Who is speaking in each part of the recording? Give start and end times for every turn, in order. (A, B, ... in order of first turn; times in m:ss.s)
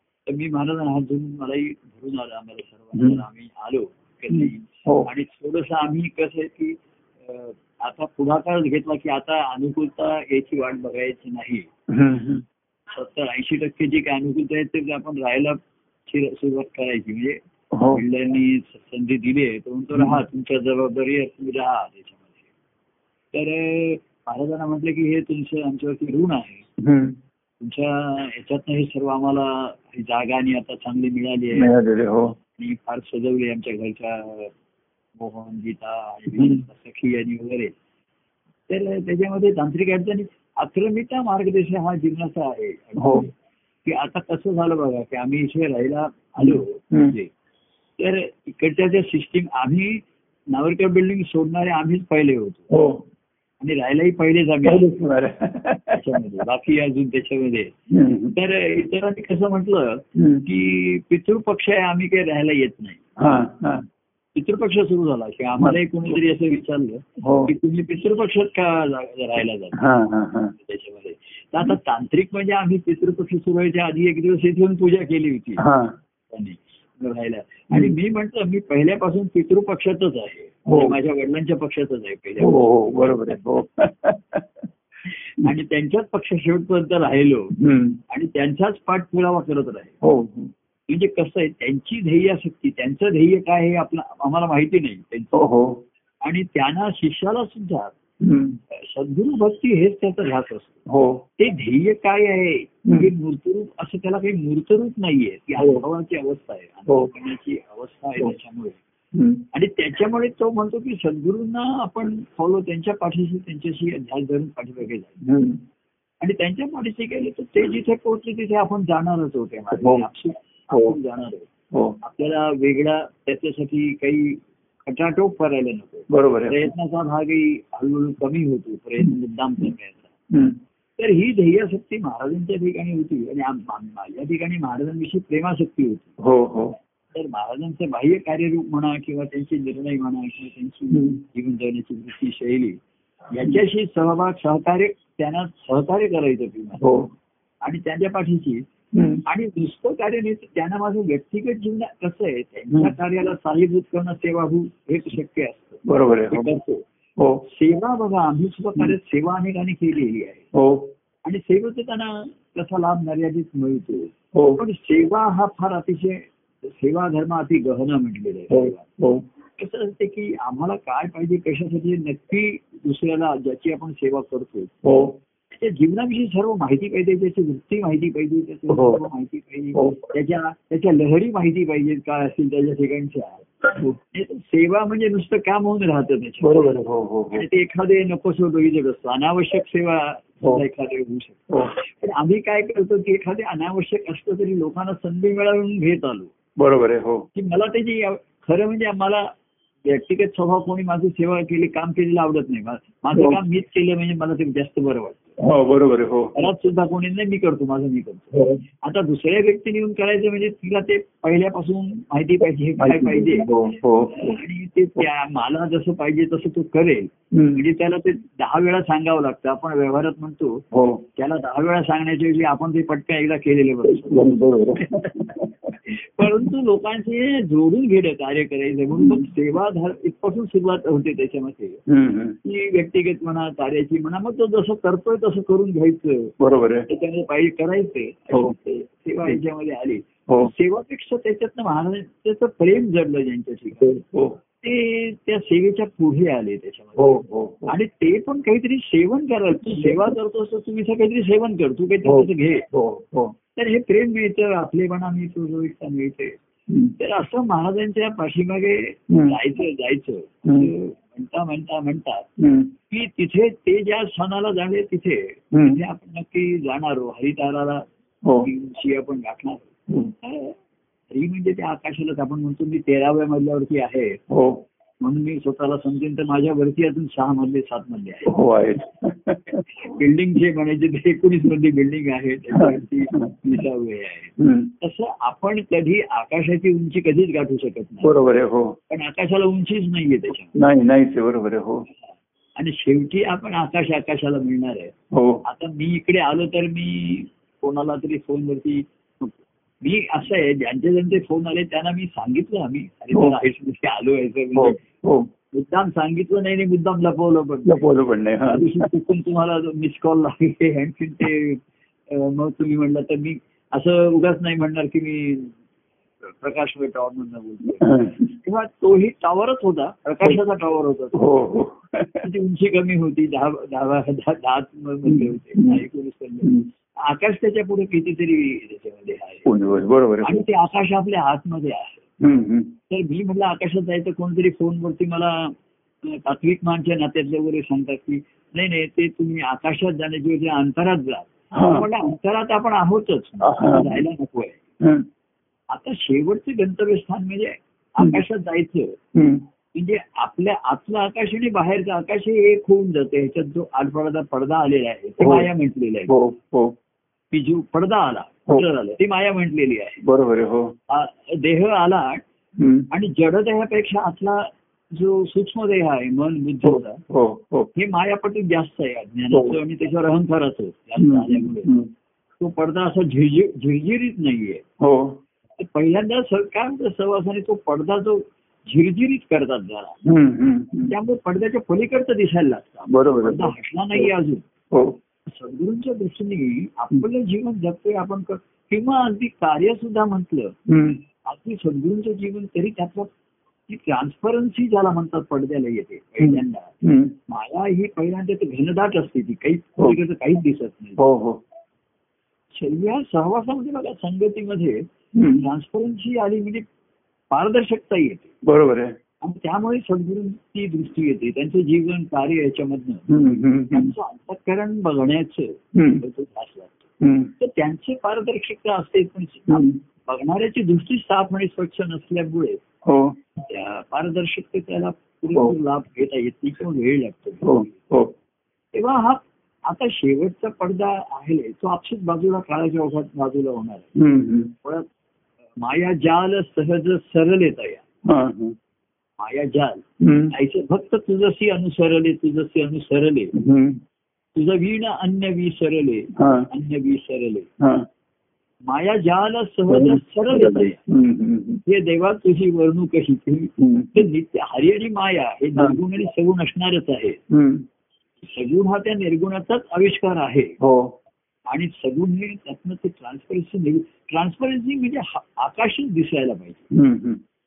0:00.3-0:11.7 A
0:04.3-0:05.1 B
0:11.9-0:12.4 B
0:12.9-0:22.3 A
0:17.7-0:18.0 B
0:23.3-0:26.7 A
0:26.8-0:27.2 B
0:27.6-0:31.7 A
0:31.6-0:32.3 B
0:32.6-0:34.5 A
0:35.2-0:37.7 A
0:36.3-0:36.6 B
0:38.7-0:43.3 A
0:43.0-0:43.2 B
0:43.8-0:47.3 A
0:46.4-0:47.1 B
0:48.0-0:52.7 A
0:52.7-0:53.0 B
0:53.6-0:54.9 A
0:54.6-0:56.2 B
0:55.9-0:57.7 A
0:57.9-0:58.3 B
0:58.3-1:03.0 A
1:00.2-1:00.4 B
1:03.2-1:03.8 B
1:04.3-1:09.8 A
1:05.6-1:06.2 B
1:07.2-1:07.5 B
1:09.7-1:10.5 B
1:10.6-1:15.6 A
1:15.6-1:16.0 B
1:16.3-1:23.4 A
1:20.7-1:21.0 B
1:22.4-1:24.6 B
1:25.4-1:27.5 A
1:27.6-1:28.0 B
1:28.1-1:30.0 A
1:30.0-1:30.5 B
1:30.9-1:35.4 A
1:35.3-1:35.8 B
1:36.2-1:37.9 A
1:38.2-1:38.6 B
1:38.7-1:40.8 A
1:40.9-1:41.2 B
1:41.4-1:48.8 A
1:42.8-1:43.1 B
1:49.1-1:49.4 B
1:49.5-1:55.2 A
1:55.2-1:55.6 B
1:56.2-2:01.5 A
1:59.8-2:00.0 B
2:01.7-2:02.0 B
2:02.0-2:10.1 A
2:06.1-2:06.6 B
2:10.3-2:10.6 B
2:11.0-2:16.1 A
2:16.2-2:16.8 B
2:17.1-2:22.8 A
2:20.9-2:21.2 B
2:23.3-2:26.8 A
2:26.8-2:27.1 B
2:27.6-2:28.6 A
2:28.9-2:29.2 B
2:29.2-2:36.8 A
2:35.8-2:36.5 B
2:37.2-2:37.4 B
2:37.5-2:40.4 A
2:40.5-2:40.9 B
2:41.2-2:48.9 A
2:44.3-2:44.6 B
2:48.5-2:49.2 B
2:49.6-2:54.7 A
2:54.8-2:55.2 B
2:55.5-3:03.5 A
2:58.7-2:59.0 B
2:59.7-3:00.0 B
3:04.1-3:06.7 A
3:06.4-3:07.4 B
3:07.3-3:16.3 A
3:11.5-3:11.7 B
3:16.6-3:17.3 B
3:17.3-3:19.3 A
3:19.8-3:25.4 A
3:25.4-3:26.5 B
3:26.3-3:33.5 A
3:28.3-3:28.6 B
3:32.8-3:34.3 B
3:34.1-3:40.6 A
3:37.3-3:37.6 B
3:40.7-3:41.0 B
3:41.2-3:45.2 A
3:43.9-3:46.4 B
3:45.8-3:51.8 A
3:48.9-3:49.3 B
3:51.9-3:52.4 B
3:52.4-3:56.3 A
3:56.4-3:56.9 B
3:56.9-4:04.0 A
4:03.8-4:04.4 B
4:04.6-4:12.6 A
4:07.0-4:07.7 B
4:09.7-4:10.0 B
4:12.0-4:13.3 B
4:13.6-4:16.3 A
4:17.0-4:22.3 A
4:19.1-4:19.4 B
4:20.4-4:20.7 B
4:22.4-4:22.7 B
4:22.9-4:27.8 A
4:25.5-4:25.8 B
4:28.2-4:28.5 B
4:28.4-4:30.6 A
4:31.1-4:34.2 A
4:34.3-4:34.6 B
4:35.0-4:38.3 A
4:38.3-4:39.6 B
4:39.7-4:48.1 A
4:42.5-4:43.3 B
4:44.4-4:44.7 B
4:48.0-4:48.8 B
4:48.9-4:50.6 A
4:50.5-4:51.8 B
4:52.6-5:04.8 A
4:55.1-4:55.4 B
5:04.5-5:05.3 B
5:05.5-5:07.9 A
5:07.6-5:08.9 B
5:08.4-5:15.6 A
5:16.3-5:21.2 A
5:17.8-5:18.3 B
5:21.1-5:22.2 B
5:22.2-5:29.5 A
5:25.1-5:25.8 B
5:29.4-5:30.4 B
5:30.2-5:32.0 A
5:32.2-5:32.7 B
5:32.9-5:44.6 A
5:41.5-5:41.9 B
5:43.4-5:44.0 B
5:45.7-5:49.0 A
5:49.1-5:49.4 B
5:49.7-5:56.1 A
5:55.2-5:55.5 B
5:56.1-5:56.7 B
5:57.3-6:00.0 A
6:00.0-6:00.7 B
6:00.9-6:02.2 A
6:02.6-6:02.9 B
6:02.9-6:07.0 A
6:06.6-6:07.7 B
6:07.7-6:11.7 A
6:11.0-6:11.9 B
6:12.4-6:14.6 A
6:14.8-6:15.2 B
6:15.6-6:20.0 A
6:20.0-6:20.9 B
6:20.8-6:24.4 A
6:22.9-6:24.1 B
6:24.7-6:25.0 B
6:25.3-6:30.5 A
6:30.7-6:31.0 B
6:31.2-6:33.1 A
6:33.7-6:36.7 A
6:36.2-6:37.2 B
6:37.3-6:41.0 A
6:41.0-6:41.4 B
6:42.5-6:44.8 A
6:45.1-6:45.4 B
6:45.4-6:46.6 A
6:47.3-6:48.3 A
6:48.4-6:49.0 B
6:49.2-6:53.1 A
6:53.1-6:53.9 B
6:53.7-7:02.6 A
6:55.7-6:56.0 B
6:57.0-6:57.3 B
6:59.5-6:59.8 B
7:02.8-7:03.2 B
7:03.4-7:07.8 A
7:07.4-7:08.1 B
7:08.7-7:13.9 A
7:14.0-7:14.5 B
7:14.6-7:14.9 A
7:15.6-7:17.8 A
7:18.0-7:18.6 B
7:19.2-7:23.3 A
7:20.0-7:20.3 B
7:23.3-7:23.8 B
7:24.3-7:27.5 A
7:26.2-7:26.5 B
7:27.6-7:27.8 B
7:28.6-7:30.8 A
7:29.7-7:31.6 B
7:31.6-7:37.2 A
7:33.6-7:34.0 B
7:37.3-7:37.6 B
7:38.2-7:40.6 A
7:40.6-7:40.9 B
7:41.5-7:46.6 A
7:46.7-7:47.2 B